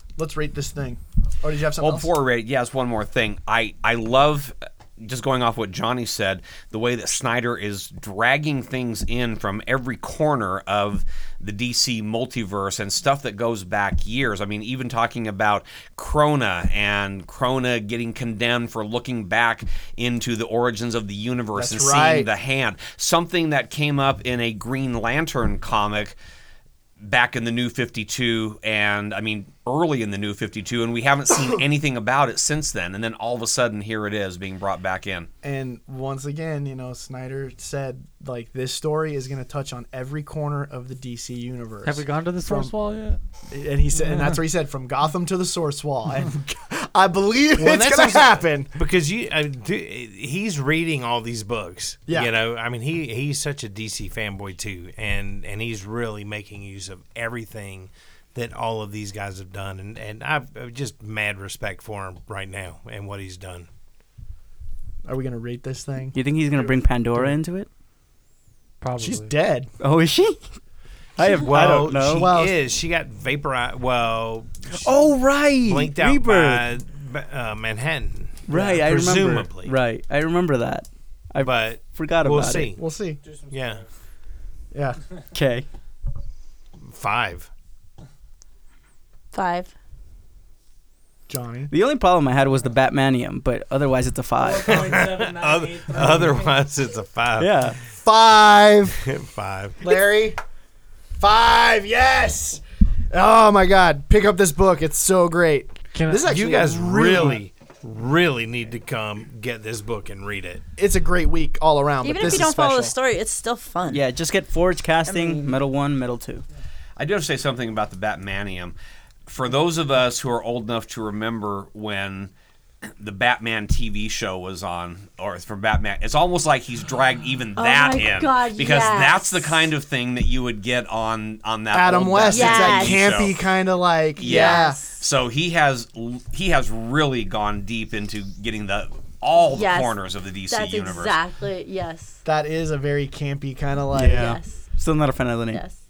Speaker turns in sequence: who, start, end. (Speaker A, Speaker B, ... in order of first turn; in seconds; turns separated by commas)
Speaker A: 0.2-2.1, Speaker B: 1.8-26.1, Speaker A: 21.5-22.3, Speaker B: 27.0-35.3, Speaker A: 35.4-42.7, Speaker C: 41.8-43.2, Speaker A: 43.5-48.7, Speaker C: 44.1-44.4, Speaker D: 47.6-63.7, Speaker A: 65.0-66.2, Speaker E: 66.1-67.7, Speaker C: 68.8-69.3, Speaker A: 69.0-69.7, Speaker E: 69.8-70.5, Speaker E: 71.2-72.4, Speaker D: 71.2-74.8, Speaker A: 71.5-72.5, Speaker E: 74.7-76.7, Speaker D: 75.6-79.8, Speaker E: 78.5-82.7, Speaker A: 78.5-78.8, Speaker D: 81.4-82.8, Speaker A: 82.8-83.2, Speaker C: 83.2-83.8, Speaker D: 83.5-83.8, Speaker A: 84.7-85.0, Speaker E: 85.3-85.7, Speaker D: 86.8-87.5, Speaker F: 89.3-89.7, Speaker A: 91.3-91.7, Speaker E: 91.7-94.9, Speaker C: 94.4-96.6, Speaker D: 94.7-97.5, Speaker E: 97.4-97.8, Speaker A: 97.9-99.0, Speaker D: 99.0-99.8, Speaker A: 99.8-100.4, Speaker A: 101.2-107.4, Speaker C: 105.9-106.3, Speaker D: 106.2-110.6, Speaker A: 110.8-112.9, Speaker F: 112.0-114.0, Speaker E: 113.9-116.4, Speaker F: 115.0-115.5, Speaker B: 117.0-118.7, Speaker B: 119.3-122.3, Speaker B: 122.8-133.4, Speaker F: 127.6-129.6, Speaker A: 131.7-134.8, Speaker F: 132.3-133.0, Speaker B: 134.2-141.2, Speaker F: 134.2-135.0, Speaker F: 139.5-139.9, Speaker F: 140.5-142.2, Speaker A: 142.2-144.4, Speaker E: 143.9-145.6, Speaker F: 144.0-144.6, Speaker F: 145.5-145.8